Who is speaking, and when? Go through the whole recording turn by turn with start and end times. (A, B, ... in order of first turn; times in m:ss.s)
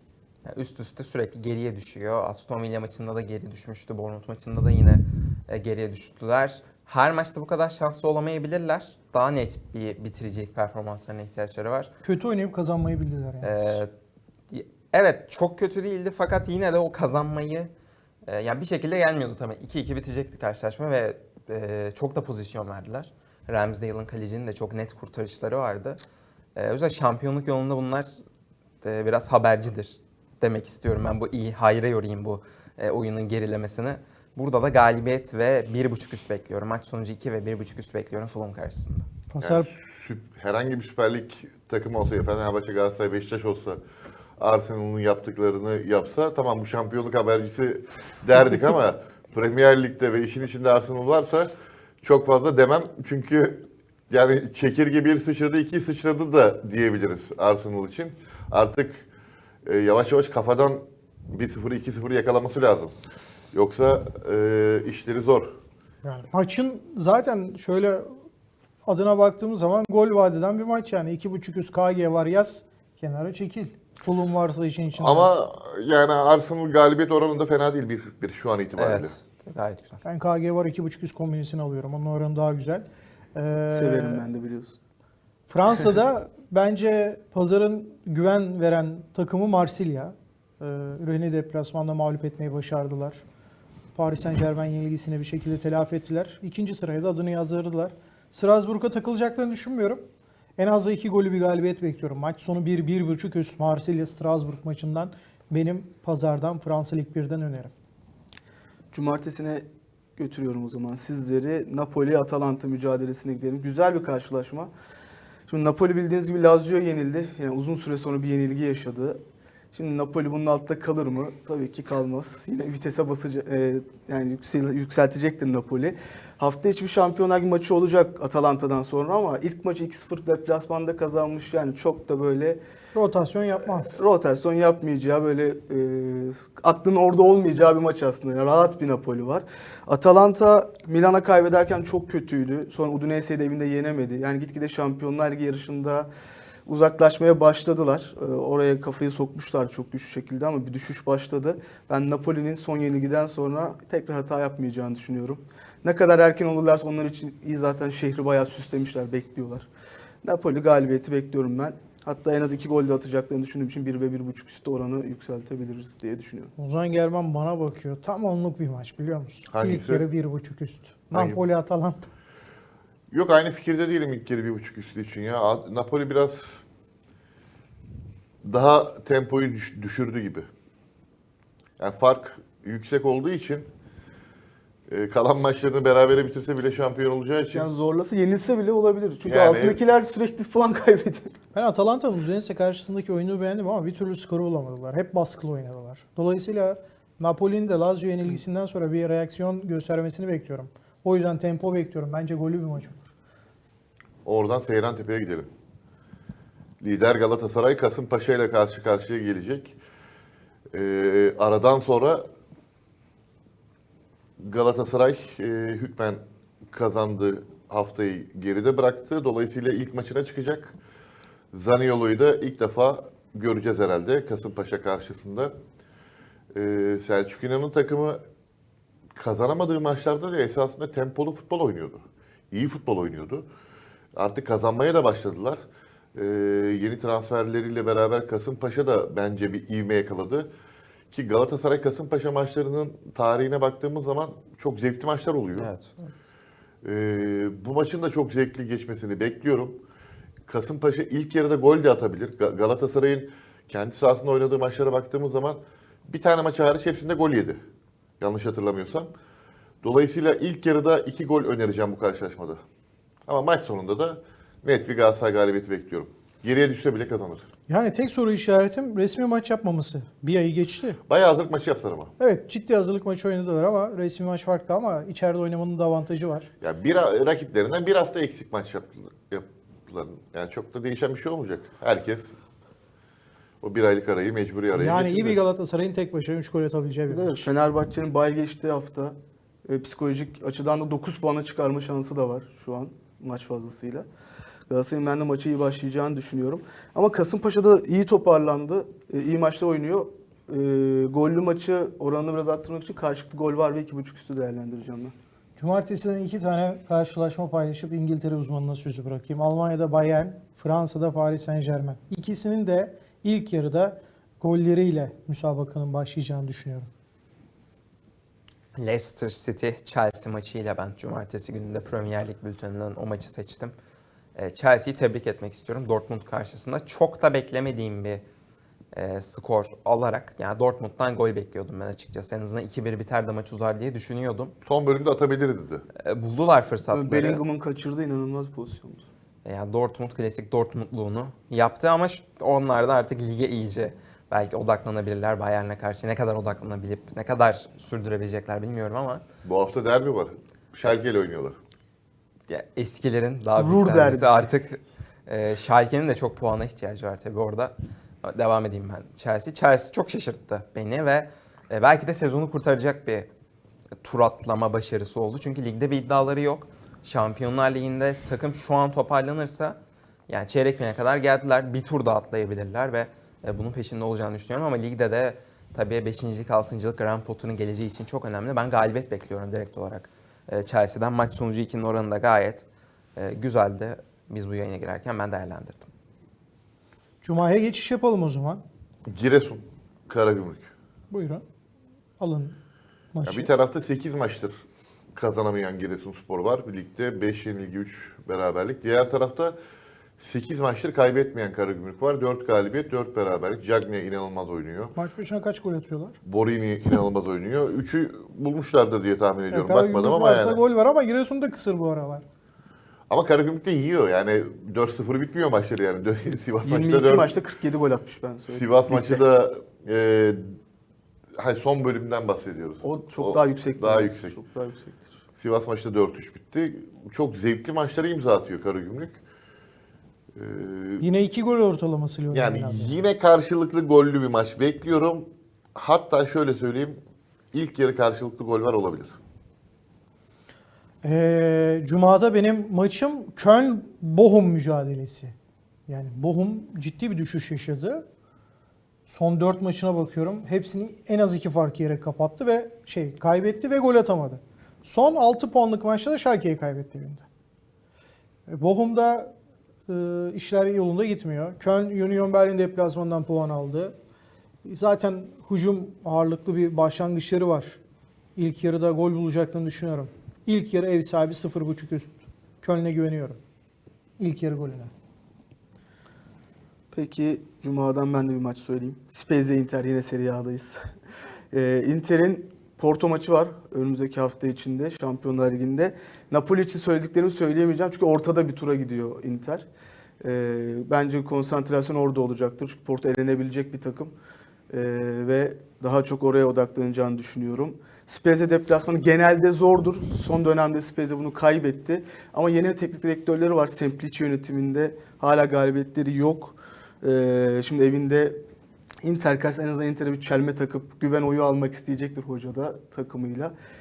0:00.5-0:11.9 A
0:12.0-0:13.8 B
0:13.4-0:13.9 A
0:14.5-0:17.7 A
0:18.2-0:26.0 A
0:26.6-0:28.1 A
0:28.8-0:39.1 A
0:39.3-0:39.7 B
0:39.4-0:43.8 C
0:44.4-0:51.5 C
0:52.0-0:59.0 C
0:59.6-1:02.9 C
1:03.5-1:05.5 C
1:06.0-1:08.1 B
1:08.8-1:15.3 B
1:14.9-1:19.1 C
1:18.8-1:20.0 A
1:20.0-1:24.2 B
1:23.7-1:24.8 D
1:25.5-1:33.2 B
1:33.9-1:40.0 B
1:40.6-1:47.7 B
1:48.9-1:49.6 D
1:50.2-1:54.7 D
1:55.5-1:59.2 D
1:59.7-2:12.6 D
2:12.9-2:14.1 B
2:13.6-2:26.1 D
2:26.6-2:39.7 D
2:40.2-2:46.5 D
2:46.6-2:52.1 B
2:49.5-2:50.1 C
2:53.1-2:56.5 C
2:58.4-3:00.5 C
3:01.8-3:03.7 C
3:04.9-3:07.7 C
3:07.5-3:11.3 D
3:09.2-3:09.8 C
3:11.5-3:23.1 B
3:24.2-3:25.5 C
3:26.8-3:29.8 C
3:30.7-3:32.2 C
3:34.4-3:40.8 C
3:41.5-3:45.5 C
3:46.5-3:48.2 C
3:49.1-3:53.4 C
3:54.2-3:55.6 C
3:56.1-4:00.5 C
4:01.1-4:05.7 C
4:05.6-4:06.1 A
4:06.8-4:09.8 C
4:10.4-4:17.6 C
4:18.2-4:19.1 C
4:19.8-4:22.6 C
4:23.3-4:27.4 C
4:27.7-4:31.0 B
4:31.1-4:32.1 C
4:32.2-4:36.5 B
4:36.6-4:42.3 C
4:43.6-4:45.4 C
4:44.7-4:47.5 B
4:47.1-4:54.0 D
4:54.7-5:05.1 D
5:05.6-5:16.9 B
5:18.8-5:23.7 A
5:24.4-5:28.2 A
5:28.9-5:34.5 A
5:34.6-5:35.8 C
5:36.0-5:37.4 A
5:36.9-5:39.0 D
5:39.4-5:49.2 A
5:49.4-5:51.6 C
5:52.5-6:03.3 A
5:53.6-5:54.5 D
6:04.0-6:09.8 A
6:10.3-6:22.6 A
6:23.2-6:25.9 A
6:27.2-6:28.6 B
6:29.1-6:30.7 C
6:31.1-6:31.4 B
6:32.2-6:32.6 B
6:33.1-6:33.5 B
6:33.2-6:34.6 C
6:35.1-6:39.6 C
6:40.2-6:44.9 C
6:45.0-6:46.2 B
6:46.2-6:50.6 C
6:49.5-6:52.2 B
6:53.1-6:57.3 C
6:56.6-6:59.2 D
6:58.5-7:00.6 C
7:01.4-7:04.4 C
7:02.8-7:05.2 D
7:05.4-7:09.2 C
7:10.3-7:11.1 C
7:11.0-7:13.0 B
7:12.3-7:17.0 C
7:17.5-7:19.2 C
7:21.0-7:25.3 B
7:25.9-7:28.0 B
7:29.1-7:37.2 B
7:38.5-7:39.3 B
7:39.9-7:43.9 B
7:44.6-7:47.8 B
7:48.4-7:53.4 B
7:54.2-7:54.9 B
7:56.9-8:00.8 D
8:01.5-8:09.6 D
8:10.2-8:14.1 D
8:14.7-8:28.4 D
8:29.0-8:33.5 D